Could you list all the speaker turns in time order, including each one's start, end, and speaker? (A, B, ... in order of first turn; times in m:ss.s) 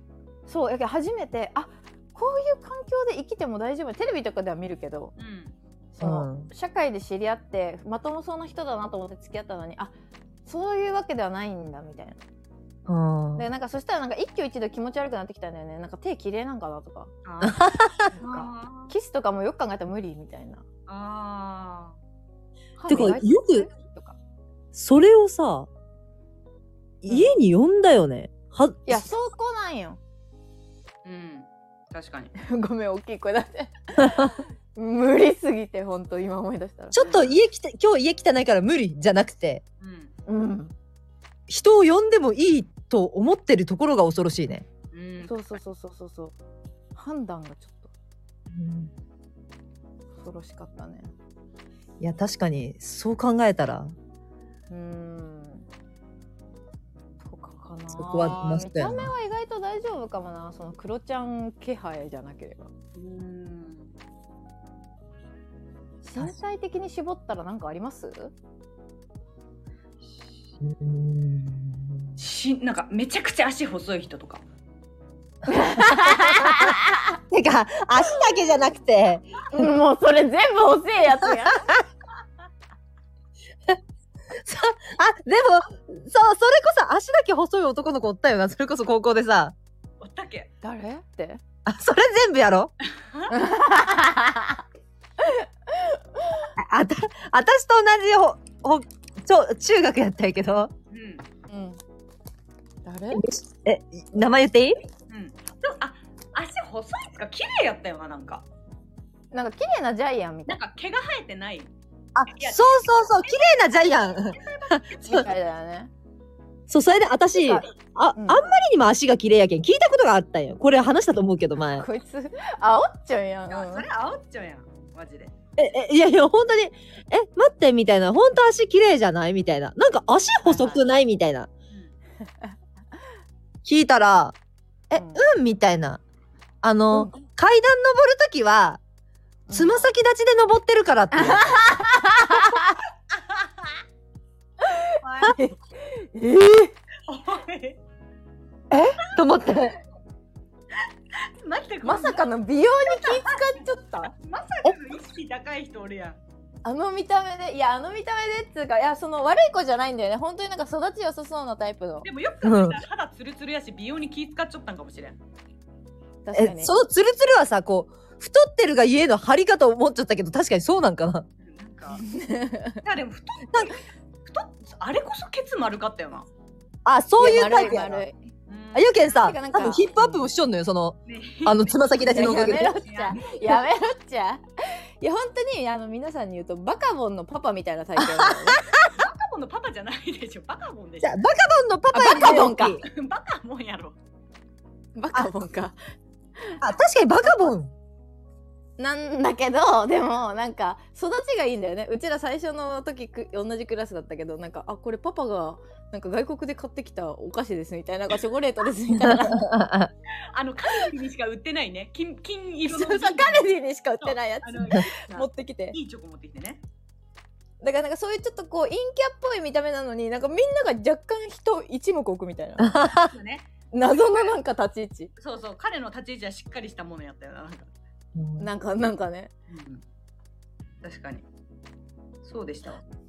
0:00.5-0:05.1 A
0:05.2-0:05.5 B
0:05.9-0:09.9 A
0:06.0-0:06.5 C
0:10.4-0:12.2 A
0:12.9-0:13.4 C
0:13.4-0:17.1 A
0:17.2-0:17.6 B
0:17.4-0:18.1 C
0:18.1-0:20.6 A
0:18.2-0:18.9 B
0:20.9-0:22.0 B
0:22.8-0:24.2 A
0:22.9-0:23.7 C
0:24.7-0:25.7 C
0:27.0-0:29.1 C
0:27.1-0:27.3 A
0:28.9-0:30.0 A
0:31.0-0:32.3 B
0:32.4-0:37.0 A
0:36.9-0:39.6 C
0:37.0-0:37.3 B
0:39.8-0:40.1 B
0:40.3-0:40.7 A
0:41.5-0:44.6 C
0:44.9-0:45.6 B
0:45.2-0:46.3 A
0:46.9-0:47.9 A
0:48.5-0:48.9 C
0:50.2-0:51.1 A
0:52.0-0:53.9 C
0:54.7-0:55.7 A
0:57.2-1:02.7 A
0:57.9-0:59.1 C
1:02.9-1:03.9 B
1:06.0-1:08.3 A
1:10.0-1:10.4 B
1:10.6-1:12.2 C
1:12.2-1:14.4 B
1:15.5-1:17.2 A
1:16.0-1:16.7 C
1:17.3-1:19.6 C
1:19.5-1:21.7 A
1:21.2-1:21.8 C
1:24.4-1:29.5 C
1:30.0-1:30.5 B
1:30.6-1:31.4 A
1:31.6-1:32.7 C
1:33.0-1:33.4 B
1:33.3-1:34.6 A
1:35.2-1:36.5 A
1:36.6-1:40.7 C
1:40.9-1:41.2 B
1:41.5-1:41.8 A
1:42.8-1:43.2 A
1:43.1-1:44.8 C
1:45.1-1:48.4 B
1:49.3-1:50.6 A
1:50.5-1:51.7 B
1:52.1-1:55.2 C
1:52.3-1:55.0 B
1:55.0-1:55.9 A
1:56.7-2:01.8 C
1:57.3-1:58.5 A
2:01.8-2:03.8 A
2:03.5-2:05.3 B
2:05.6-2:11.5 C
2:10.5-2:10.8 A
2:13.6-2:14.3 C
2:14.9-2:16.0 C
2:14.9-2:15.2 A
2:16.6-2:18.8 C
2:19.5-2:19.9 A
2:19.5-2:21.6 C
2:21.1-2:22.8 A
2:24.6-2:26.7 A
2:25.1-2:25.4 B
2:27.1-2:27.8 B
2:28.7-2:29.0 A
2:29.0-2:29.8 C
2:31.2-2:36.2 B
2:31.8-2:34.1 A
2:36.6-2:42.1 A
2:42.0-2:45.2 B
2:42.4-2:42.8 C
2:46.2-2:46.7 A
2:46.3-2:51.2 C
2:51.4-2:52.0 B
2:51.9-2:52.8 A
2:52.8-2:56.3 B
2:56.8-2:58.0 C
2:57.2-2:58.2 A
2:58.5-2:59.3 B
2:58.7-3:02.8 C
2:59.1-3:00.2 A
3:01.0-3:03.6 B
3:02.0-3:08.6 A
3:08.0-3:08.8 C
3:08.8-3:11.2 B
3:11.0-3:12.8 C
3:11.9-3:12.8 A
3:12.2-3:14.0 B
3:14.9-3:15.8 A
3:16.6-3:17.7 C
3:18.8-3:29.5 A
3:29.0-3:29.9 C
3:30.3-3:36.6 B
3:32.7-3:35.8 A
3:37.6-3:42.7 A
3:42.6-3:43.1 C
3:43.1-3:44.3 B
3:43.7-3:45.1 A
3:45.2-3:47.7 B
3:48.1-3:48.5 C
3:48.4-3:49.3 A
3:49.5-3:49.8 B
3:50.8-3:51.2 B
3:52.2-3:52.8 B